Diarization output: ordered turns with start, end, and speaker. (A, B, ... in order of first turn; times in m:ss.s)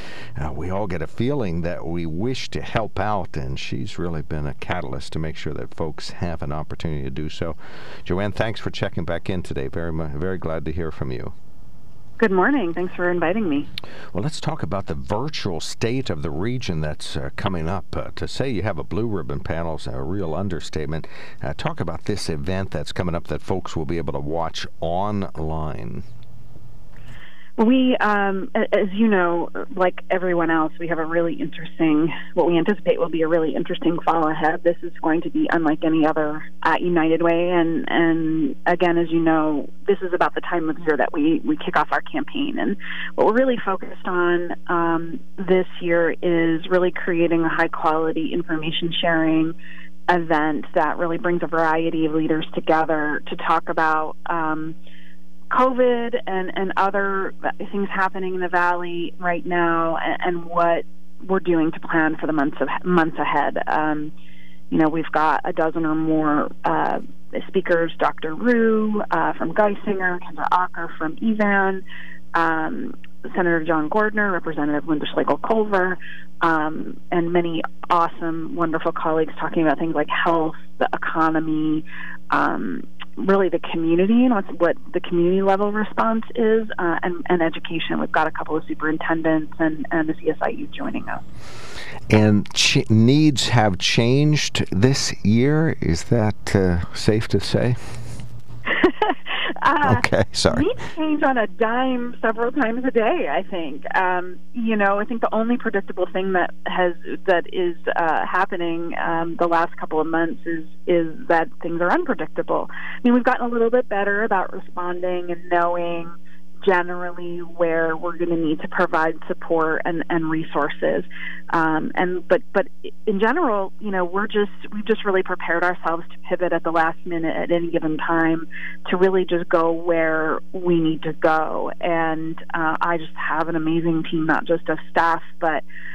0:00.4-0:11.3 A
0:12.2-0:13.7 B
0:14.1-0:26.0 A
0:27.6-0:49.5 B
0:50.1-0:54.8 B
0:55.5-1:04.1 B
1:04.7-1:11.8 B
1:12.3-1:31.2 B
1:32.1-1:37.8 A
1:38.7-2:15.6 B
1:39.8-1:40.7 A